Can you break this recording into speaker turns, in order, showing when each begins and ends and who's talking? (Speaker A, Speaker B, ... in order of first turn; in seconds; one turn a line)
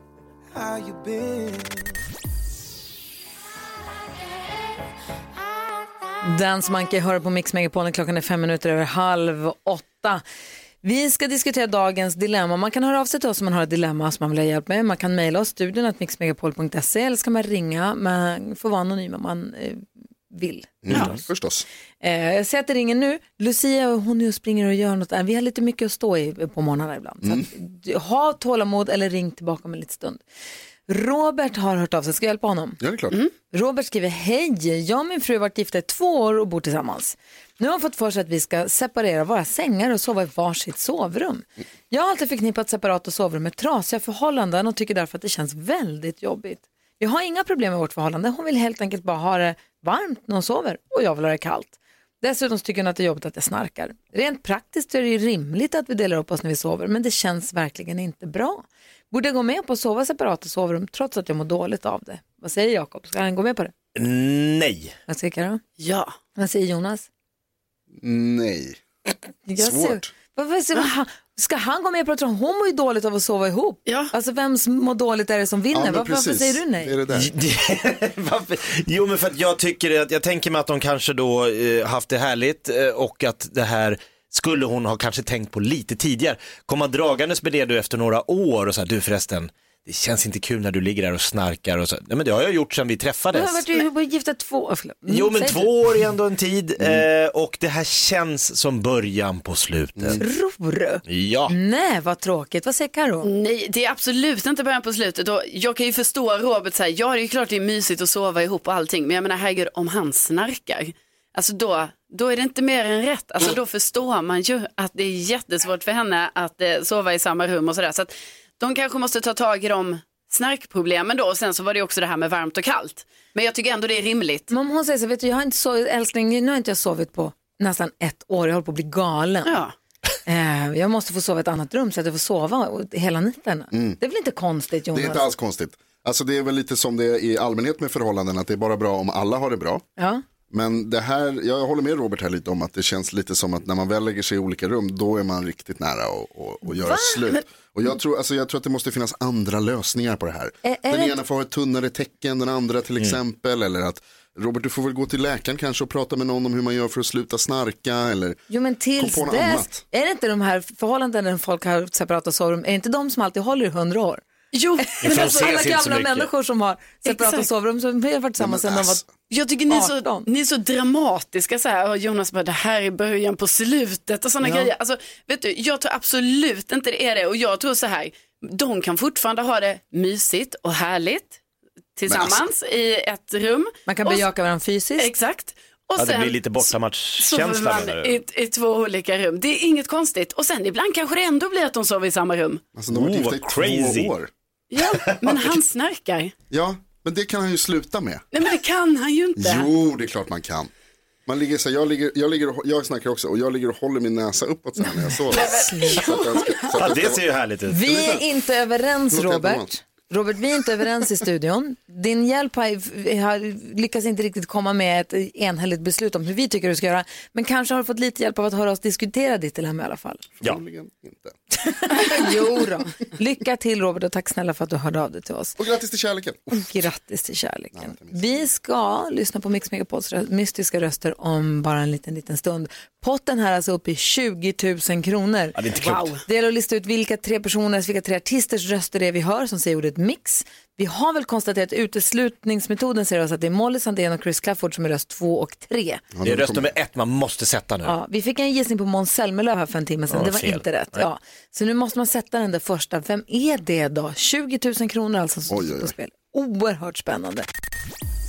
Speaker A: 6.2-10.2
Speaker A: 10.8-21.1
Speaker B: 20.8-21.6
Speaker A: 22.0-30.2
Speaker A: 30.9-32.8
Speaker B: 32.8-33.2
Speaker A: 33.5-63.7
Speaker C: 64.0-65.0
Speaker A: 65.1-65.6
Speaker D: 65.8-66.1
Speaker A: 66.4-67.1
Speaker B: 68.0-68.8
Speaker A: 69.5-76.9
Speaker B: 69.6-70.1
Speaker D: 73.9-74.1
Speaker B: 75.7-77.3
Speaker C: 77.1-93.7
Speaker A: 93.3-95.7
Speaker C: 95.1-100.2
Speaker B: 96.8-97.0
Speaker A: 100.2-103.3
Speaker C: 101.1-101.5
Speaker D: 103.2-124.5
Speaker A: 124.5-129.6
Speaker D: 129.5-129.7
Speaker A: 130.3-135.2
Speaker B: 133.7-134.0
Speaker B: 134.9-139.8
Speaker A: 140.0-140.2
Speaker B: 140.5-158.4
Speaker A: 146.8-147.4
Speaker A: 150.6-151.2
Speaker A: 158.5-164.2
Speaker B: 159.0-159.8
Speaker D: 164.5-165.5
Speaker A: 164.8-169.0
Speaker C: 165.0-166.3
Speaker D: 167.1-167.5
Speaker B: 168.4-169.1
Speaker D: 169.3-181.4
Speaker A: 169.7-170.3
Speaker D: 182.0-184.2
Speaker B: 182.1-182.4
Speaker A: 183.9-185.1
Speaker D: 185.0-192.6
Speaker C: 186.0-188.2
Speaker B: 192.8-194.3
Speaker C: 192.9-194.1
Speaker D: 194.7-196.3
Speaker C: 195.1-195.5
Speaker B: 196.5-198.2
Speaker D: 198.3-199.7
Speaker B: 199.4-200.7
Speaker B: 201.3-207.3
Speaker D: 205.3-206.7
Speaker A: 205.4-206.0
Speaker C: 206.7-207.9
Speaker A: 207.7-220.3
Speaker B: 207.9-208.2
Speaker B: 209.1-209.7
Speaker B: 220.4-221.3
Speaker A: 221.6-225.6
Speaker B: 225.6-226.7
Speaker A: 226.5-235.6
Speaker B: 227.8-228.4
Speaker C: 235.6-236.2
Speaker D: 235.8-236.1
Speaker A: 236.2-246.0
Speaker B: 246.2-246.7
Speaker C: 246.2-247.9
Speaker A: 247.8-257.5
Speaker C: 250.1-251.0
Speaker B: 255.5-255.9